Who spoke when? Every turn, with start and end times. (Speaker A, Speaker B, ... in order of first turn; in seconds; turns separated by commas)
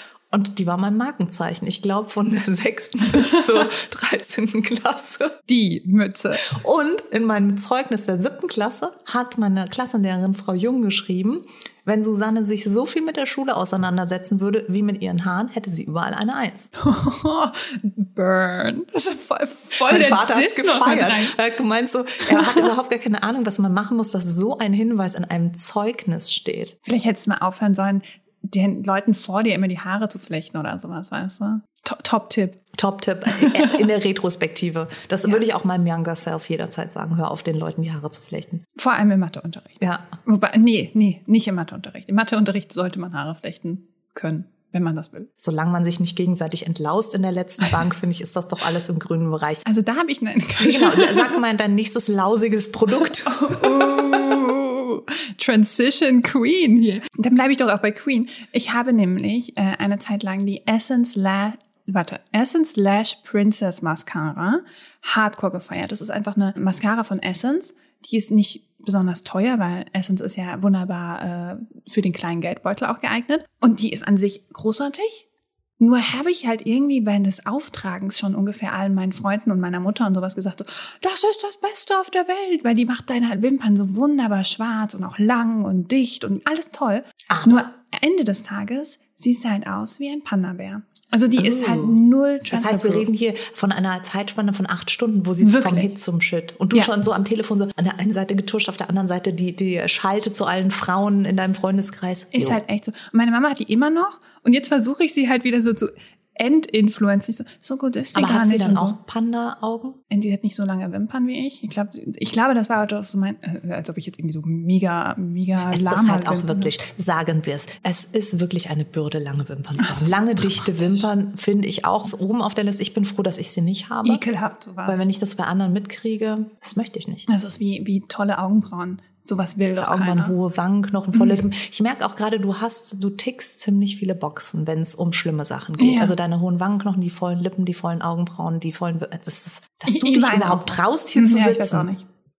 Speaker A: 0.3-5.4, Speaker B: 5.5-6.5, Speaker A: 6.4-16.7, Speaker B: 16.8-21.4, Speaker A: 19.8-26.7, Speaker B: 22.2-22.6, Speaker B: 26.8-32.6, Speaker A: 32.7-38.6, Speaker B: 33.3-33.8, Speaker B: 38.8-45.3, Speaker A: 39.8-40.1, Speaker A: 45.4-49.6, Speaker B: 49.6-51.4, Speaker A: 50.6-54.3, Speaker B: 53.2-75.2, Speaker B: 75.8-93.1, Speaker A: 87.3-87.7, Speaker A: 91.4-102.6, Speaker B: 95.4-95.9, Speaker B: 102.3-109.0, Speaker A: 108.1-110.0, Speaker B: 110.1-116.7, Speaker A: 115.7-124.2, Speaker B: 119.8-121.0, Speaker B: 124.0-125.0, Speaker A: 124.9-127.2, Speaker B: 127.3-130.3, Speaker A: 129.8-141.9, Speaker B: 131.1-131.4, Speaker B: 135.8-136.1, Speaker B: 139.8-142.0